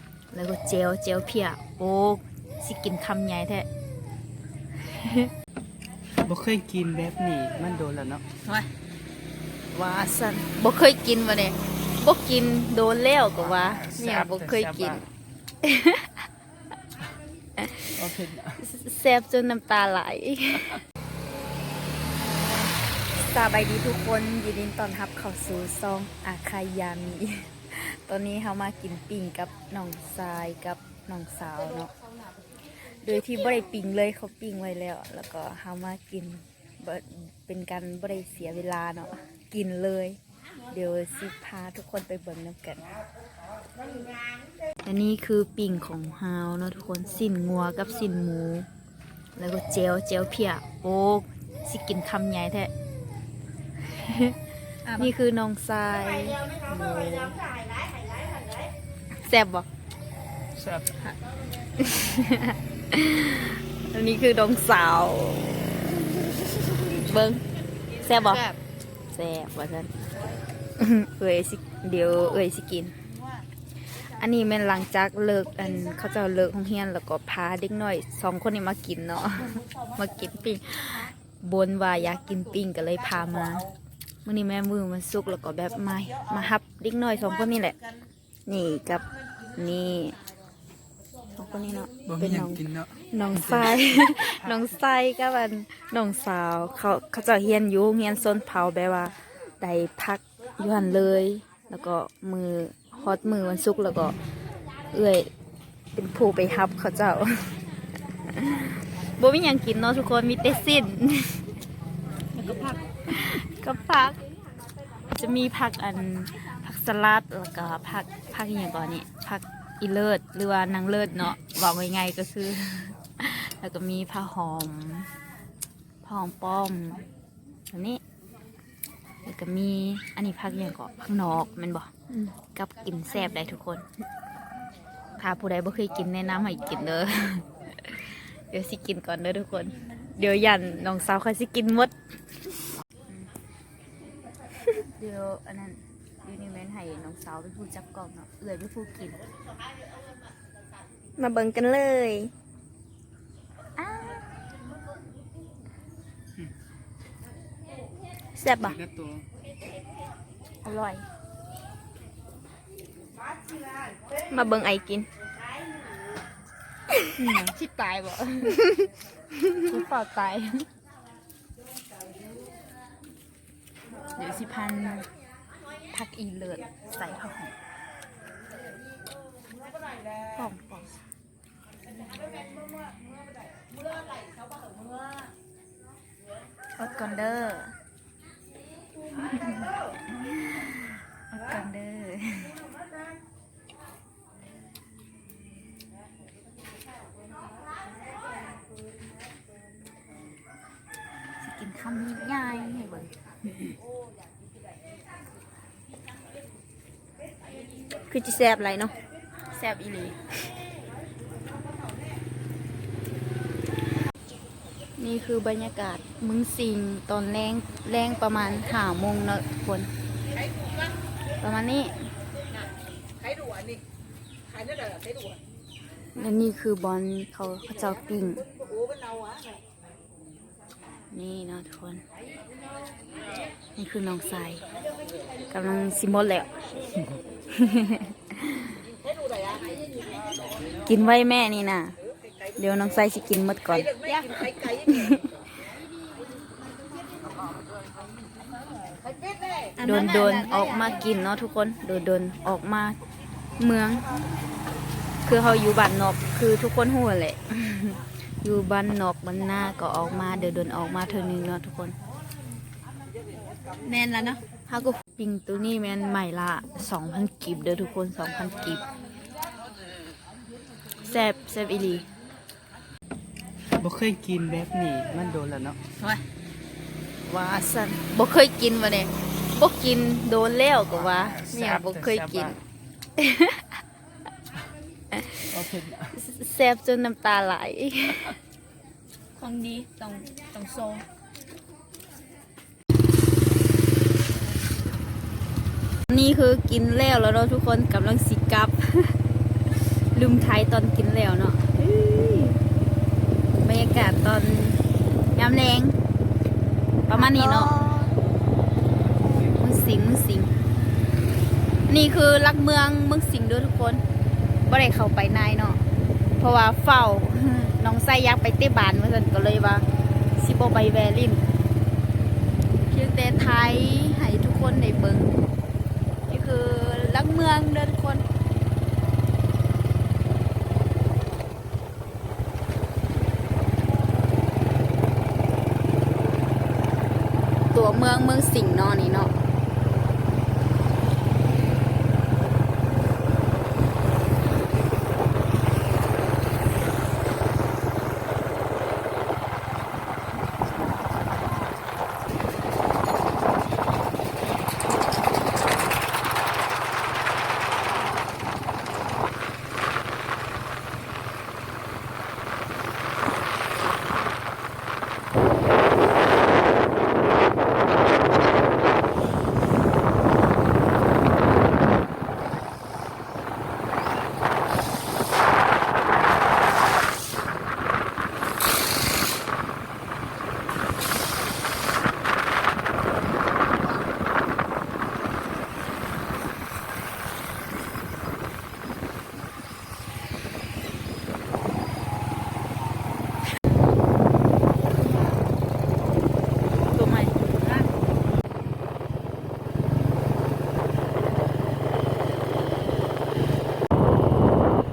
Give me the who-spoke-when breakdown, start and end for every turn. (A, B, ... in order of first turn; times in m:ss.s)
0:00.3-0:03.7 A
0:04.8-0:05.3 A
0:06.2-0:08.3 B
0:09.7-0:15.0 A
0:15.6-0:16.2 A
0:17.6-0:18.0 A
0:18.0-0:18.6 B
0:18.6-0:20.8 A
0:23.1-0:31.9 A
0:32.8-0:43.0 A
0:44.8-0:48.7 A
0:49.4-0:52.7 A
0:53.9-0:54.4 A
0:55.0-0:57.1 A
0:56.7-0:57.4 B
0:59.2-0:59.7 A
1:00.6-1:01.0 B
1:01.8-1:07.4 A
1:08.0-1:08.6 A
1:09.1-1:10.0 A
1:10.8-1:12.9 A
1:13.9-1:23.7 A
1:24.2-1:27.8 A
1:28.5-1:30.2 A
1:31.4-1:44.2 A
1:32.1-1:32.9 B
1:44.9-1:45.3 A
1:46.0-1:47.5 A
1:48.2-1:51.4 A
1:52.4-1:54.2 A
1:55.1-2:05.1 A
2:06.0-2:07.1 A
2:07.7-2:08.0 A
2:09.2-2:13.9 A
2:15.2-2:22.4 A
2:24.8-2:29.2 A
2:31.2-2:32.3 A
2:33.8-2:34.2 A
2:38.4-2:38.8 A
2:38.5-2:38.8 C
2:38.6-2:39.2 B
2:40.6-2:41.0 A
2:44.3-2:45.1 A
2:47.1-2:48.7 A
2:49.4-2:50.6 A
2:54.2-2:55.1 A
2:55.9-2:57.5 A
3:00.4-3:01.0 A
3:06.8-3:07.7 A
3:09.2-3:12.6 A
3:21.4-3:23.8 A
3:28.1-3:29.0 A
3:29.5-3:30.3 A
3:35.0-3:39.9 A
3:41.4-3:42.1 A
3:46.2-3:48.5 A
3:51.1-3:52.0 A
3:53.8-3:54.6 A
3:55.5-3:56.5 A
3:57.5-3:58.8 A
4:00.9-4:02.0 A
4:02.6-4:05.5 A
4:09.8-4:11.0 C
4:09.8-4:13.0 A
4:13.6-4:14.1 A
4:15.3-4:22.0 A
4:23.9-4:24.2 C
4:23.9-4:28.9 A
4:31.0-4:32.1 A
4:33.8-4:35.8 B
4:37.3-4:42.6 A
4:43.2-4:43.7 A
4:45.1-4:45.4 A
4:45.5-4:46.1 B
4:46.1-4:48.4 A
4:49.4-4:51.1 C
4:56.1-4:59.2 A
5:00.1-5:02.6 A
5:03.6-5:04.8 A
5:05.4-5:06.0 A
5:07.1-5:07.8 A
5:07.1-5:08.2 C
5:09.6-5:10.5 A
5:11.9-5:14.0 A
5:14.7-5:15.8 A
5:16.4-5:19.8 A
5:20.4-5:21.4 A
5:22.9-5:25.4 A
5:26.3-5:28.2 A
5:37.7-5:39.3 A
6:36.9-6:37.9 A